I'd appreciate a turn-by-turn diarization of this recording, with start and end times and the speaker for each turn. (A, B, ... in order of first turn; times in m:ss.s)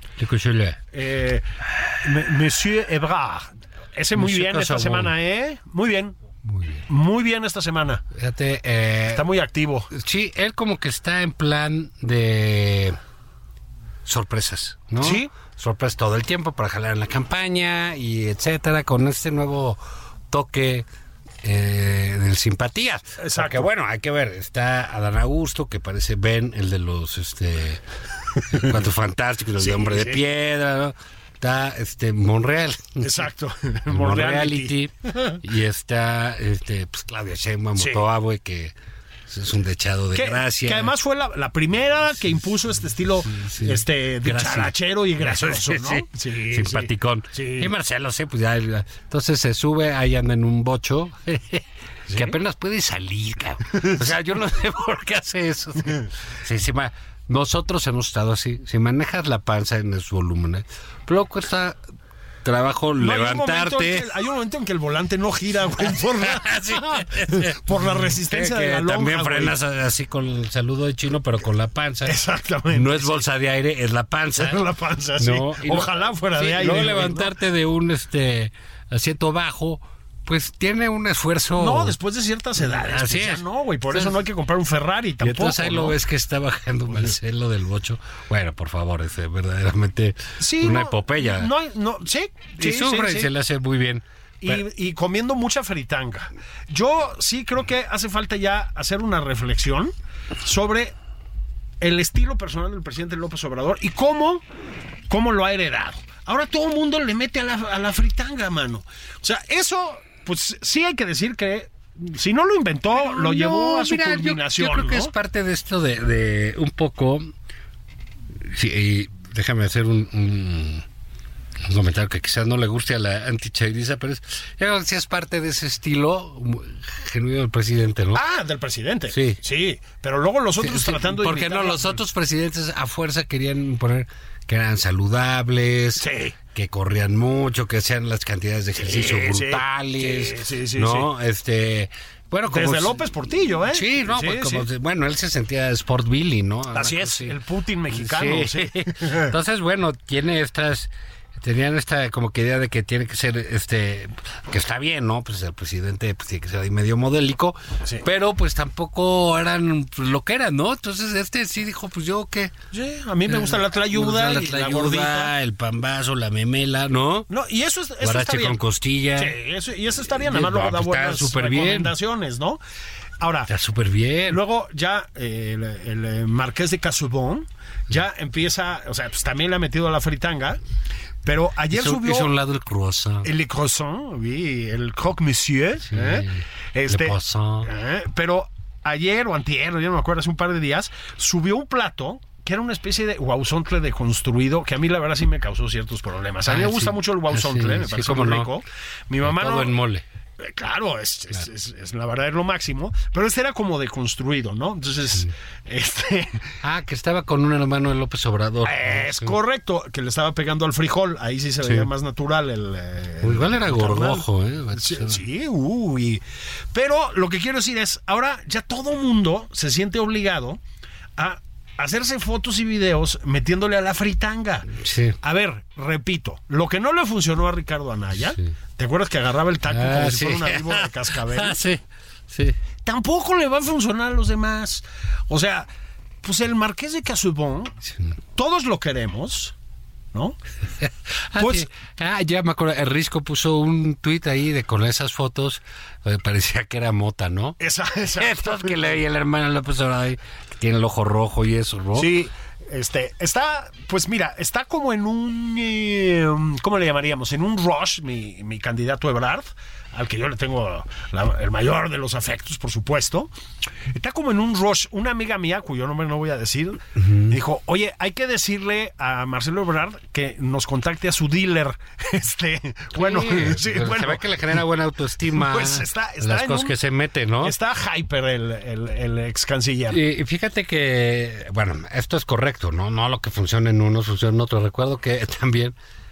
0:00.2-0:00.8 A
0:00.9-0:06.2 B
0:04.2-0:05.1 A
0:06.4-0:06.9 A
0:06.9-0:08.0 B
0:08.1-0:09.3 A
0:09.1-0:09.9 B
0:09.9-0:13.0 A
0:14.0-0:20.9 A
0:15.0-0:15.3 B
0:21.4-0:27.8 A
0:23.2-0:23.7 B
0:28.5-0:33.1 A
0:29.6-0:30.2 B
0:33.0-0:35.4 B
0:33.9-0:38.7 A
0:37.8-0:38.1 B
0:39.3-0:40.9 A
0:40.2-0:47.7 B
0:43.2-1:01.8 A
0:52.1-0:52.4 B
1:02.4-1:04.1 A
1:03.0-1:09.6 B
1:05.8-1:12.2 A
1:12.0-1:13.3 B
1:12.7-1:14.6 A
1:14.4-1:17.3 B
1:15.2-1:22.0 A
1:21.6-1:26.0 B
1:22.6-1:24.2 A
1:25.2-1:31.5 A
1:30.4-1:33.3 B
1:32.6-1:34.6 A
1:34.4-1:40.9 B
1:41.8-1:44.4 B
1:45.1-1:55.1 B
1:53.0-1:57.3 A
1:58.4-2:00.8 A
2:01.6-2:08.2 A
2:08.2-2:12.0 B
2:09.1-2:09.4 A
2:10.6-2:23.0 A
2:16.0-2:16.4 B
2:18.8-2:21.1 B
2:22.5-2:24.7 B
2:23.7-2:27.4 A
2:26.7-2:29.3 B
2:27.9-2:42.5 A
2:42.7-2:45.3 B
2:43.3-2:47.3 A
2:47.3-2:48.6 B
2:48.0-2:49.4 A
2:49.2-2:52.6 B
2:50.2-2:52.0 A
2:53.2-2:53.5 B
2:53.5-2:54.4 A
2:54.3-3:00.6 B
3:01.2-3:02.3 B
3:01.7-3:03.3 A
3:03.2-3:19.7 B
3:05.9-3:07.7 A
3:16.5-3:18.5 A
3:19.2-3:20.0 A
3:20.4-3:26.5 B
3:26.6-3:29.4 A
3:28.6-3:36.2 B
3:31.6-3:31.9 A
3:33.2-3:35.2 A
3:36.7-3:40.6 B
3:41.2-3:51.6 B
3:44.7-3:45.2 A
3:49.7-3:52.6 A
3:52.8-3:55.7 B
3:56.2-3:57.8 B
3:57.9-3:58.2 A
3:58.4-3:59.5 B
4:00.7-4:07.6 A
4:01.4-4:01.7 B
4:07.6-4:09.0 B
4:08.1-4:12.1 A
4:12.0-4:23.3 B
4:23.9-4:34.4 B
4:27.0-4:27.4 A
4:33.0-4:37.6 A
4:35.2-4:36.7 B
4:37.4-4:40.0 B
4:39.9-4:45.8 A